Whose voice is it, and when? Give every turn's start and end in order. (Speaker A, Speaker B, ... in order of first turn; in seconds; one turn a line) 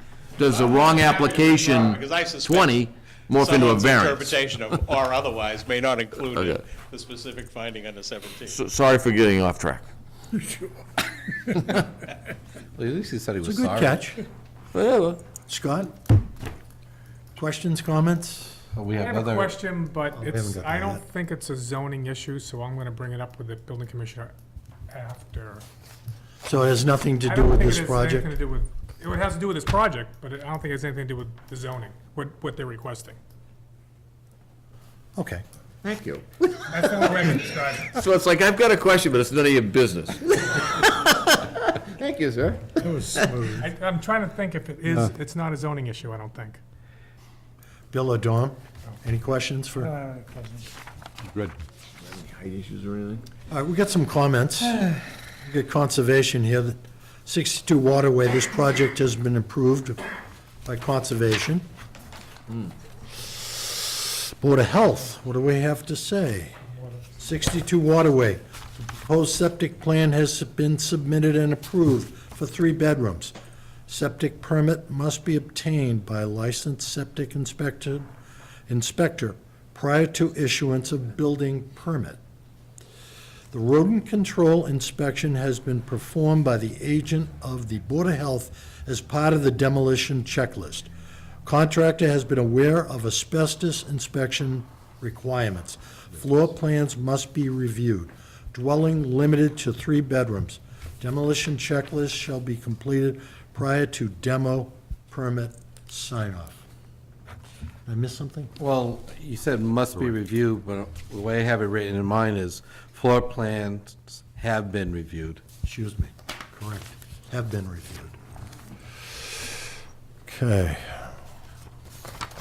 Speaker A: 0.4-4.3
Speaker B: 0.4-8.6
Speaker A: 6.3-6.6
Speaker A: 8.4-9.9
Speaker C: 12.8-14.0
Speaker D: 13.4-14.2
Speaker A: 14.7-15.2
Speaker D: 15.5-15.9
Speaker D: 17.4-18.6
Speaker C: 18.8-19.5
Speaker E: 18.9-24.3
Speaker D: 20.1-21.0
Speaker E: 24.9-25.6
Speaker D: 26.4-28.3
Speaker E: 27.2-33.2
Speaker D: 35.2-35.4
Speaker A: 35.8-37.3
Speaker E: 36.7-38.0
Speaker A: 37.9-42.8
Speaker E: 43.0-46.6
Speaker D: 43.1-43.5
Speaker D: 47.9-50.0
Speaker E: 49.8-50.7
Speaker A: 52.0-53.2
Speaker D: 53.5-60.0
Speaker D: 60.6-61.6
Speaker D: 63.3-66.5
Speaker D: 67.2-73.3
Speaker D: 73.9-78.1
Speaker D: 78.7-82.2
Speaker D: 83.5-90.9
Speaker D: 91.5-106.7
Speaker D: 107.9-108.5
Speaker C: 108.6-115.4
Speaker D: 115.6-118.2
Speaker D: 120.3-121.1